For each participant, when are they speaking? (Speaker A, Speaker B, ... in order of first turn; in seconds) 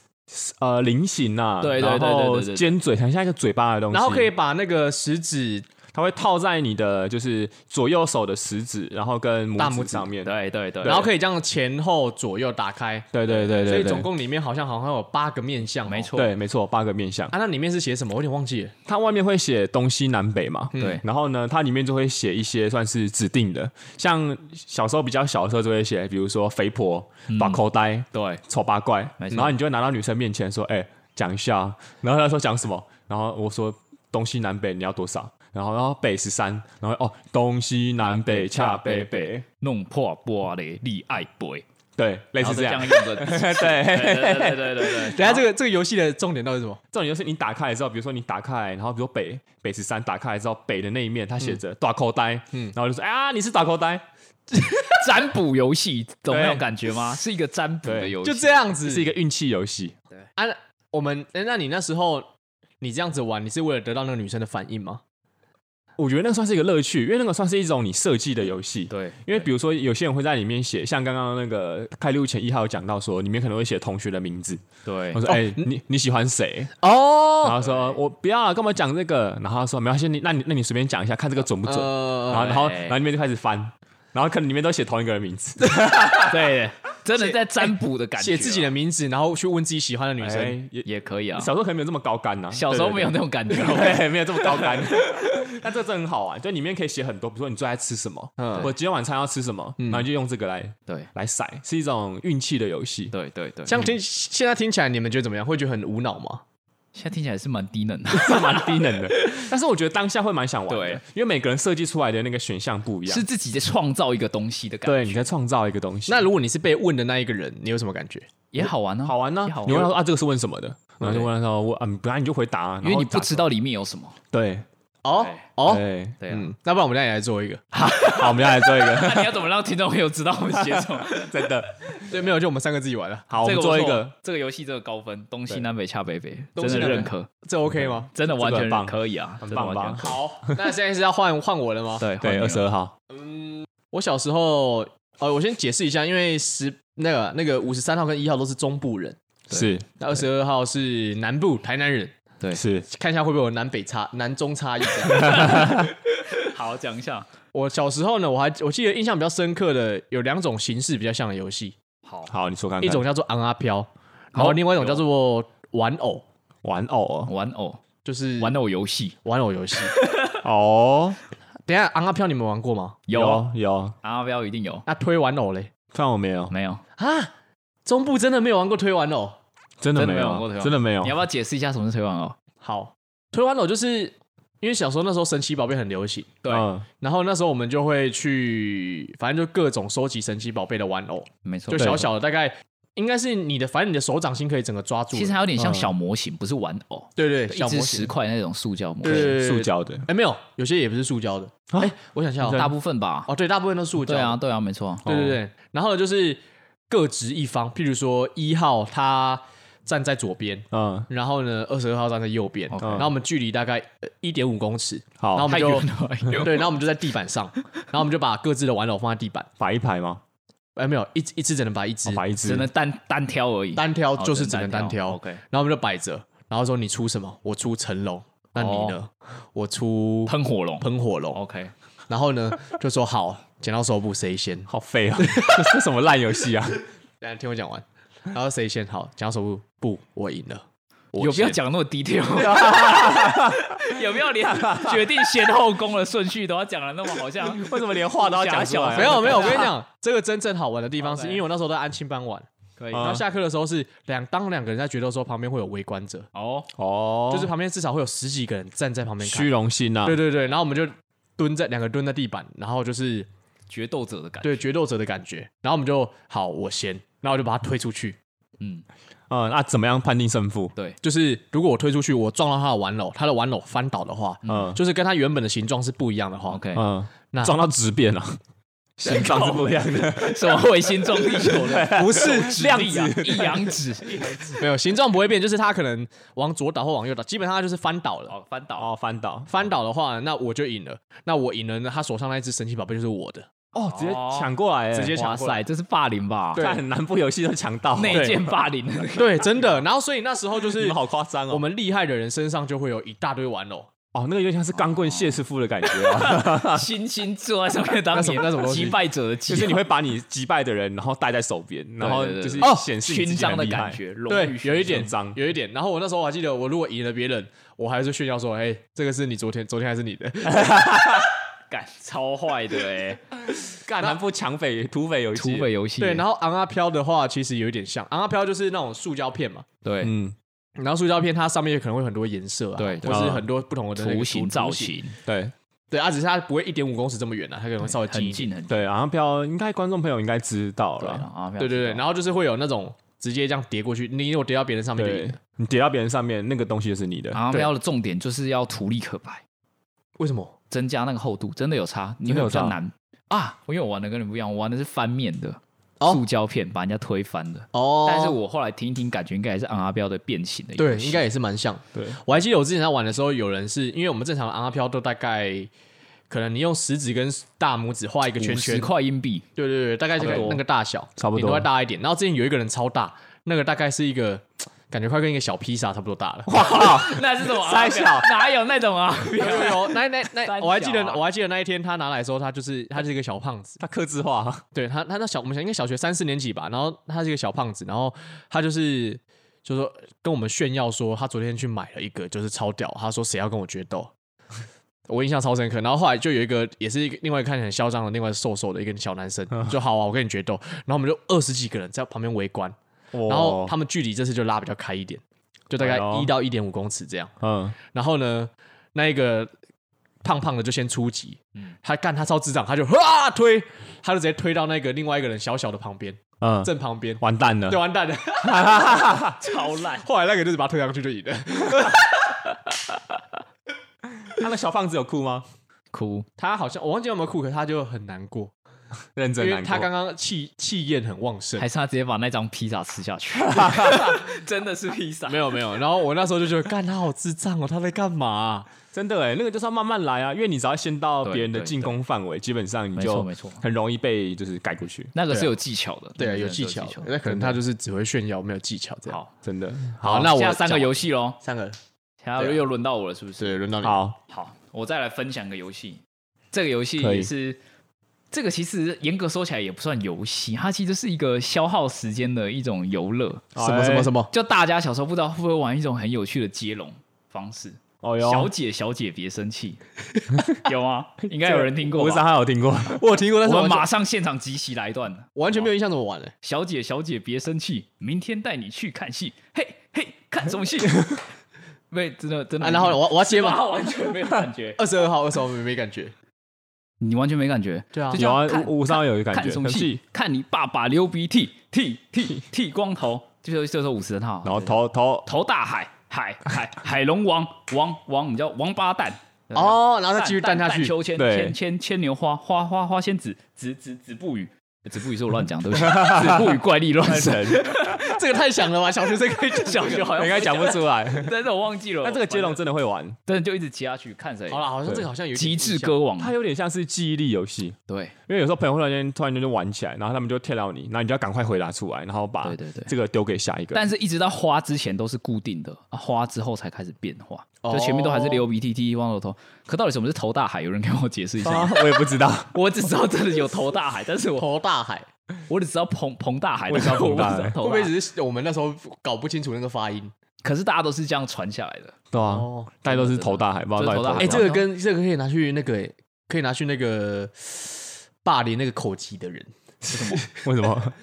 Speaker A: 0.3-4.3, 5.9-10.3, 13.1-14.1, 16.1-17.3, 18.9-39.4, 42.0-45.1, 46.9-54.0, 56.3-56.7, 57.8-58.1, 58.8-60.0, 66.0-76.7, 77.4-86.6, 90.2-103.1, 108.1-113.2, 114.8-116.3, 118.6-123.5, 124.3-124.7, 125.7-126.2, 127.8-129.5, 130.5-131.7, 133.3-134.1, 137.7-140.5, 142.2-142.9, 149.5-149.9, 152.5-152.8, 155.1-155.9, 162.3-163.0, 166.6-167.3, 170.4-171.2, 173.1-173.9, 175.9-176.5, 179.8-181.2, 186.5-186.8, 191.8-192.1, 195.6-195.9, 199.1-200.0, 202.5-202.7, 205.0-205.4, 210.7-211.1, 212.8-213.1, 215.2-215.5, 219.6-220.2, 222.1-222.7, 234.7-236.8, 242.4-245.3, 247.4-249.7, 252.9-253.2, 256.8-257.5, 259.2-260.2, 269.3-270.7, 274.4-274.8, 276.7-278.4, 279.0-284.6, 288.8-289.5, 293.7-295.2, 296.6-298.6, 300.7-301.6, 304.1-306.9, 309.5-314.0, 314.8-315.4, 320.5-321.3, 323.6-325.7, 330.0-330.4, 333.1-333.4, 335.2-335.5, 338.7-341.3, 344.9-347.4, 352.2-352.8, 370.2-370.6, 371.2-371.7, 376.5-378.3, 383.8-384.6, 403.1-403.8, 405.8-406.3, 407.4-407.8, 416.4-417.8, 418.4-419.4, 424.3-425.4, 429.1-429.9, 433.4-434.2, 438.9-445.1, 447.3-447.5, 449.4-450.3, 453.8-454.2, 457.0-457.3, 463.5-464.1, 468.0-468.5, 471.4-473.0, 488.1-490.0, 494.4-495.3, 501.1-501.6, 505.7-508.0, 510.1-511.3, 512.0-513.2, 516.2-523.9, 531.4-532.5, 536.7-537.6, 542.1-544.5, 549.9-550.9
Speaker B: 1.6-2.7, 10.2-11.1, 15.9-16.3, 20.8-21.0, 27.3-27.6, 28.1-28.4, 29.2-29.5, 38.0-41.6, 42.4-45.4, 54.8-58.7, 68.9-69.3, 74.8-75.2, 77.6-78.0, 82.3-83.0, 86.2-88.7, 90.8-91.5, 92.5-94.9, 103.1-103.8, 106.9-109.5, 110.7-111.0, 113.1-115.3, 118.5-119.9, 122.8-124.2, 125.2-125.5, 126.2-126.5, 127.7-131.5, 133.4-137.3, 138.1-140.1, 142.0-142.6, 155.1-157.3, 162.0-162.3, 164.3-165.0, 167.3-167.8, 168.4-169.2, 169.9-170.4, 173.1-173.5, 174.0-174.8, 176.5-176.8, 179.9-182.3, 186.4-186.7, 191.4-192.0, 195.1-199.4, 202.4-203.3, 204.1-205.1, 212.7-213.1, 215.5-216.7, 222.4-225.4, 228.6-228.9, 230.3-231.7, 241.2-249.8, 251.0-251.4, 252.8-253.2, 256.3-256.7, 263.7-264.6, 268.6-268.9, 274.4-274.7, 276.5-276.9, 279.1-284.3, 288.3-288.9, 293.8-294.5, 295.1-296.6, 297.9-299.6, 304.8-309.8, 312.0-315.1, 321.7-323.2, 325.4-326.2, 329.8-330.1, 332.8-333.4, 333.9-335.1, 337.9-338.8, 341.0-342.0, 347.3-349.4, 350.7-361.2, 368.4-369.4, 370.2-370.6, 376.6-381.2, 419.4-420.1, 425.9-426.3, 431.6-435.6, 441.2-441.9, 442.9-443.6, 445.1-447.1, 450.0-451.4, 452.2-453.6, 454.3-456.0, 456.5-457.6, 458.3-463.5, 464.3-469.8, 470.5-472.3, 473.4-475.3, 476.4-481.2, 481.9-484.8, 487.0-508.1, 509.5-512.6, 513.3-514.7, 515.3-516.3, 517.9-518.1, 522.4-522.9, 523.7-534.5, 535.5-537.9, 540.4-542.0, 542.9-544.6, 549.9-550.2
Speaker C: 3.9-5.7, 9.6-10.1, 10.8-16.1, 17.3-18.7, 20.7-21.0, 45.0-46.8, 58.2-59.1, 60.4-62.3, 62.8-65.0, 75.3-75.6, 76.8-77.6, 81.6-82.5, 88.2-90.6, 98.4-98.7, 99.8-100.1, 103.7-106.4, 116.1-118.3, 125.0-127.7, 132.0-133.3, 136.6-138.1, 140.0-142.0, 143.1-149.2, 150.0-152.2, 152.9-155.7, 157.5-161.8, 162.8-166.2, 168.0-168.5, 169.2-169.9, 171.7-173.0, 174.9-175.7, 177.0-177.3, 177.8-179.4, 182.6-186.4, 187.0-195.4, 197.2-198.1, 199.0-202.7, 203.3-204.4, 205.0-219.5, 220.8-222.2, 223.8-231.4, 232.1-235.6, 237.2-240.6, 241.1-241.6, 248.9-252.5, 253.0-256.3, 257.3-259.5, 260.0-263.3, 264.4-268.2, 271.0-276.6, 281.9-282.6, 284.5-288.3, 289.5-293.5, 294.9-295.6, 296.5-296.8, 298.1-298.4, 299.1-303.9, 308.1-309.0, 312.6-312.9, 314.3-320.8, 326.0-329.6, 330.8-334.9, 335.9-338.5, 341.6-345.4, 350.2-350.5, 357.7-358.4, 360.8-365.7, 366.3-368.9, 369.6-376.6, 379.4-383.8, 384.7-394.1, 395.1-402.8, 403.2-407.3, 407.9-409.5, 410.2-419.2, 420.0-422.2, 426.4-428.5, 429.4-431.6, 435.3-438.7, 446.2-449.2, 450.0-451.8, 452.4-452.6, 453.4-454.0, 463.6-464.3, 472.9-473.9, 475.4-476.3, 482.6-483.6, 484.8-486.1, 487.9-488.2, 499.5-500.9, 507.9-510.3, 514.5-516.0, 527.6-528.5, 534.4-535.1, 537.6-540.1, 542.2-542.8, 544.2-550.2